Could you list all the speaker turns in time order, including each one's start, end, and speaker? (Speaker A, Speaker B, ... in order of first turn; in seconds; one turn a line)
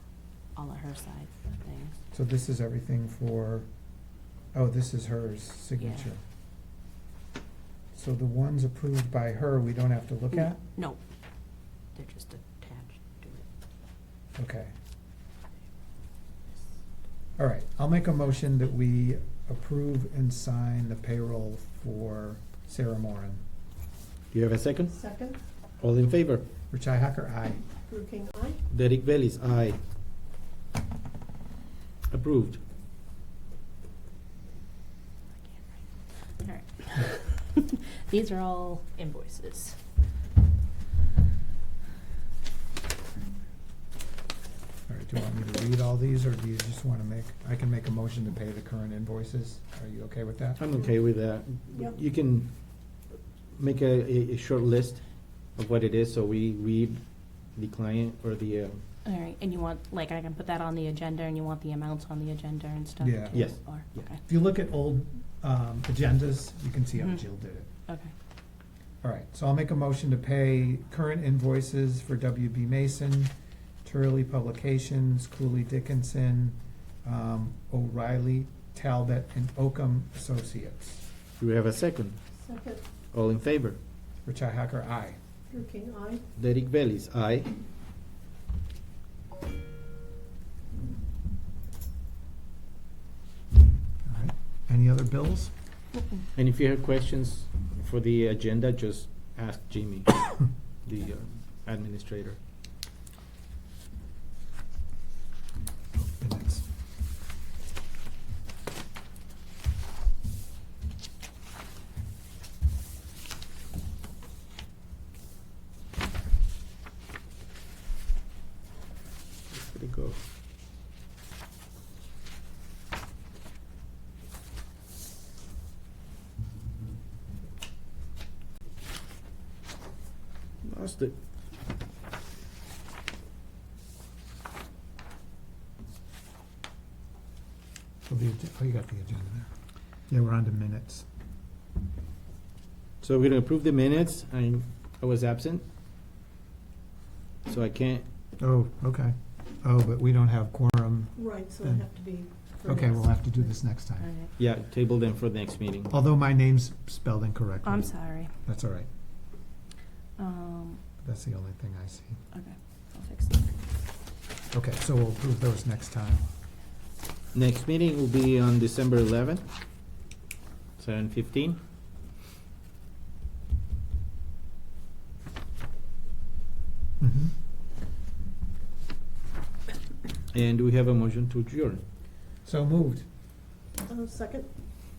Speaker A: 0.5-1.9
Speaker B: 2.1-3.7
Speaker B: 4.5-6.2
Speaker A: 5.8-6.0
Speaker B: 7.9-10.6
Speaker A: 10.3-11.0
Speaker A: 11.9-13.4
Speaker B: 14.3-14.7
Speaker B: 17.4-23.4
Speaker C: 24.3-25.0
Speaker D: 24.9-25.4
Speaker C: 25.8-26.4
Speaker B: 26.7-27.6
Speaker D: 27.9-28.6
Speaker C: 28.7-29.8
Speaker C: 32.1-32.6
Speaker A: 36.4-39.8
Speaker B: 44.9-50.6
Speaker C: 50.6-52.5
Speaker C: 53.5-55.0
Speaker C: 55.5-57.0
Speaker C: 57.5-58.8
Speaker A: 59.0-64.2
Speaker B: 63.0-63.5
Speaker C: 63.3-64.0
Speaker B: 64.2-67.7
Speaker A: 67.9-68.1
Speaker B: 69.0-73.3
Speaker B: 73.8-81.0
Speaker C: 81.4-82.2
Speaker D: 82.4-82.8
Speaker C: 83.1-83.8
Speaker B: 84.2-85.2
Speaker D: 85.5-86.2
Speaker C: 86.3-87.5
Speaker B: 94.0-95.5
Speaker C: 96.3-102.4
Speaker B: 105.9-106.6
Speaker C: 119.5-120.2
Speaker C: 130.6-131.1
Speaker B: 138.1-139.5
Speaker B: 140.1-141.1
Speaker C: 143.0-145.6
Speaker C: 147.4-148.0
Speaker B: 148.4-151.9
Speaker D: 151.2-153.2
Speaker B: 152.6-154.1
Speaker A: 154.0-154.3
Speaker C: 154.4-155.9
Speaker B: 155.9-158.9
Speaker A: 157.6-158.3
Speaker A: 160.2-160.8
Speaker B: 161.0-162.2
Speaker A: 162.3-163.5
Speaker B: 164.5-166.2
Speaker C: 167.3-169.4
Speaker C: 170.8-171.6
Speaker B: 177.0-177.3
Speaker C: 180.3-181.8
Speaker B: 182.4-183.0
Speaker D: 183.8-184.5